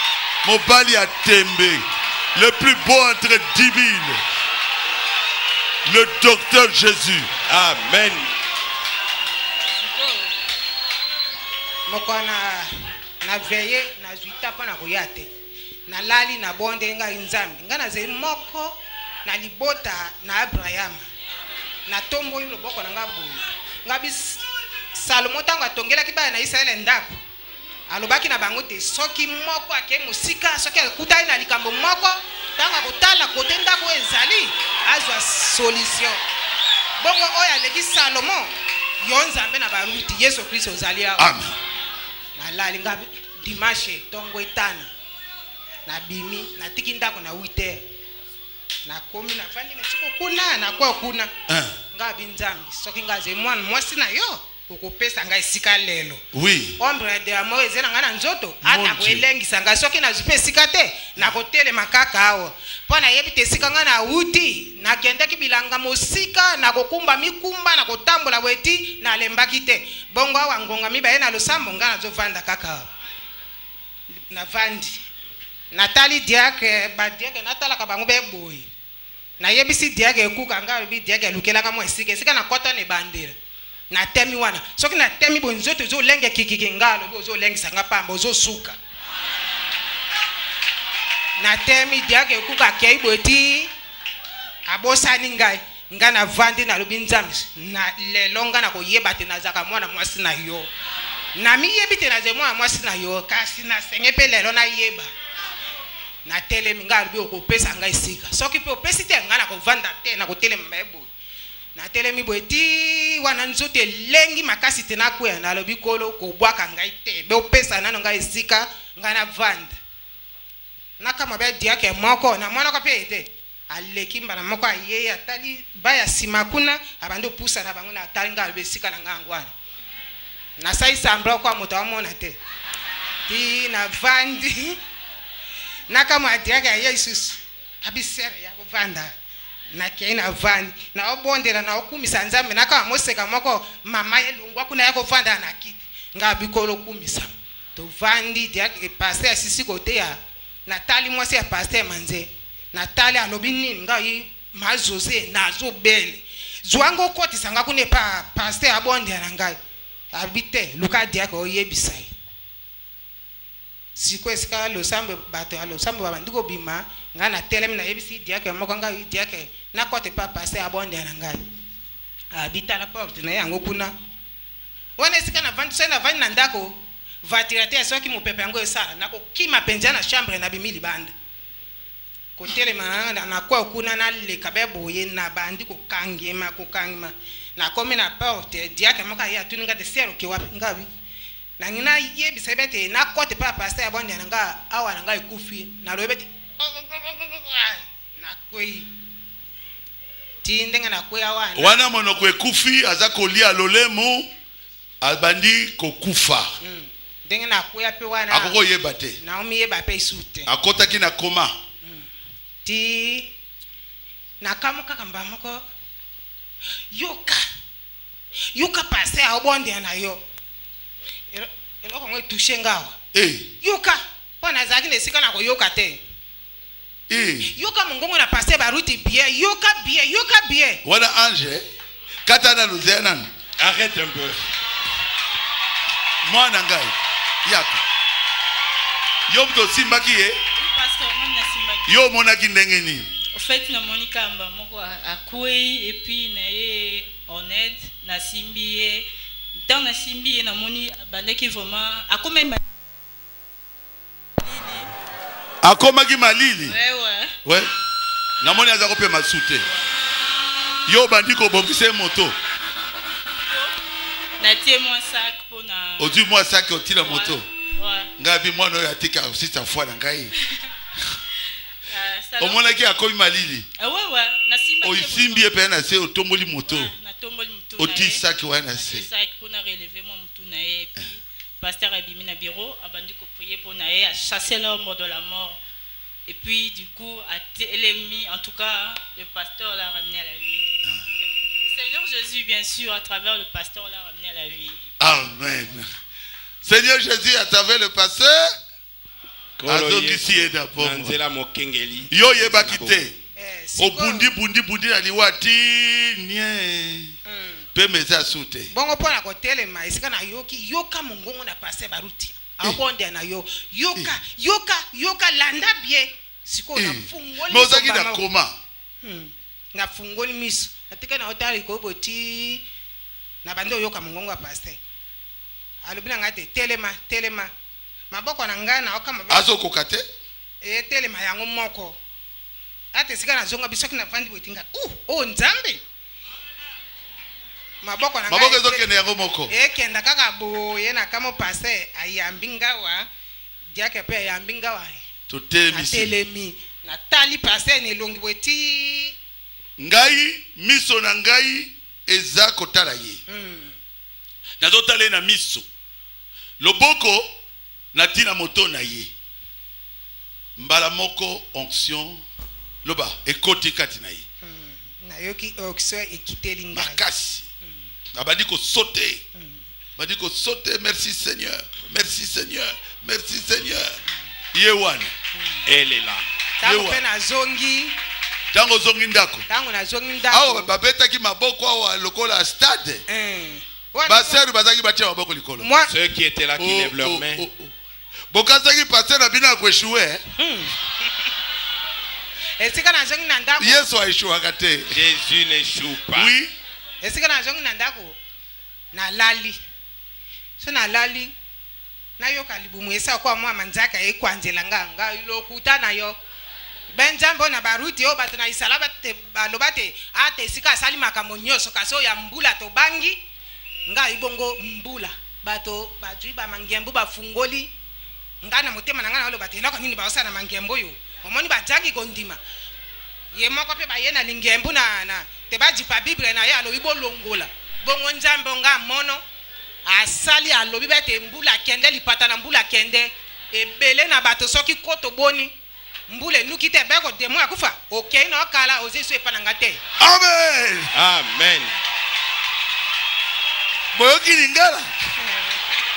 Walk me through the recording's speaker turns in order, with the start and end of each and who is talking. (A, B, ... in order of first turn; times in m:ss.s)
0:00.4-0:04.2 A
0:05.8-0:07.3 A
0:07.5-0:08.3 B
0:09.8-0:10.1 C
0:11.9-0:15.3 D
0:15.9-0:21.0 D
0:21.9-0:24.4 D
0:24.9-0:27.2 D
0:27.9-0:36.2 D
0:37.0-0:41.3 D
0:41.2-0:41.6 A
0:42.4-0:44.9 D
0:45.9-0:47.8 D
0:48.9-0:51.3 D
0:51.5-0:51.8 A
0:51.9-0:56.2 D
0:56.3-0:56.8 A
0:56.8-1:12.9 D
0:58.6-0:59.2 A
1:14.3-1:15.0 D
1:15.7-1:18.7 D
1:19.4-1:23.4 D
1:23.9-1:28.8 D
1:31.4-1:33.7 D
1:34.7-1:40.7 D
1:41.4-1:45.1 D
1:46.2-1:51.1 D
1:51.7-1:59.8 D
2:01.0-2:09.5 D
2:10.6-2:12.4 D
2:13.3-2:14.8 D
2:15.9-2:19.1 D
2:19.7-2:39.6 D
2:40.1-2:42.1 D
2:44.0-2:51.4 D
2:52.3-2:53.9 D
2:55.0-3:01.1 D
3:02.4-3:10.9 D
3:11.6-3:18.9 D
3:20.4-3:21.8 D
3:21.6-3:24.3 A
3:25.0-3:26.5 A
3:26.6-3:28.6 D
3:28.3-3:29.2 A
3:29.2-3:30.5 D
3:30.5-3:31.6 A
3:32.6-3:33.3 D
3:34.4-3:35.6 D
3:36.9-3:37.4 D
3:38.6-3:40.2 D
3:41.3-3:43.0 D
3:43.1-3:43.5 A
3:43.6-3:46.0 D
3:47.1-3:47.5 A
3:47.5-3:50.8 D
3:50.8-3:51.6 A
3:52.3-3:53.3 A
3:53.6-3:54.4 B
3:56.2-3:56.9 A
3:57.4-3:57.8 A
3:59.3-4:00.4 A
4:00.6-4:01.9 C
4:01.9-4:03.1 A
4:03.3-4:09.1 C
4:09.6-4:12.6 C
4:14.4-4:14.9 C
4:15.6-4:16.8 A
4:16.6-4:17.3 C
4:18.4-4:19.6 A
4:20.9-4:22.3 A
4:24.4-4:26.2 C
4:26.0-4:27.4 A
4:27.0-4:28.1 C
4:28.2-4:30.3 A
4:31.9-4:32.7 C
4:32.4-4:33.6 A
4:33.8-4:35.5 C
4:34.8-4:36.9 A
4:36.7-4:45.6 C
4:37.8-4:39.1 A
4:46.3-4:50.6 C
4:51.2-4:54.9 C
4:55.0-4:55.9 A
4:56.6-4:58.6 A
4:59.6-5:03.0 B
4:59.6-5:01.2 A
5:02.1-5:03.1 A
5:03.4-5:04.3 D
5:03.8-5:07.1 A
5:07.3-5:07.6 D
5:07.7-5:08.7 A
5:08.7-5:18.2 D
5:16.7-5:18.6 A
5:19.0-5:22.6 D
5:23.4-5:24.8 D
5:25.8-5:27.5 D
5:28.1-5:29.5 D
5:29.3-5:30.0 A
5:30.6-5:32.0 D
5:32.9-5:35.8 D
5:37.8-5:38.9 D
5:38.3-5:39.5 A
5:39.5-5:43.1 D
5:43.7-5:45.0 D
5:45.3-5:46.1 A
5:45.7-5:49.1 D
5:49.8-5:53.2 A
5:53.3-5:53.7 D
5:54.6-5:55.6 A
5:56.6-5:57.3 A
5:57.9-5:59.1 A
6:00.6-6:02.2 A
6:02.8-6:04.2 A
6:04.4-6:07.0 D
6:06.7-6:07.4 A
6:08.1-6:09.2 A
6:09.4-6:09.6 D
6:10.0-6:14.0 A
6:14.5-6:15.1 A
6:15.4-6:15.6 D
6:15.6-6:16.2 B
6:16.6-6:18.0 D
6:16.6-6:17.0 A
6:18.5-6:19.4 A
6:19.5-6:20.7 D
6:20.3-6:23.0 A
6:23.1-6:24.4 D
6:24.0-6:25.7 A
6:25.6-6:25.9 D
6:25.9-6:27.4 B
6:26.6-6:27.7 A
6:28.3-6:30.2 A
6:30.4-6:30.7 D
6:32.6-6:33.9 D
6:33.6-6:35.0 A
6:34.9-6:36.3 B
6:36.1-6:36.5 A
6:37.0-6:38.2 D
6:38.9-6:39.6 D
6:40.6-6:41.3 D
6:42.2-6:46.2 D
6:46.9-6:53.2 D
6:53.9-6:57.7 D
6:58.4-7:02.4 D
7:03.3-7:09.2 D
7:09.8-7:15.5 D
7:16.1-7:19.8 D
7:20.0-7:20.9 A
7:20.9-7:21.7 B
7:23.9-7:24.9 A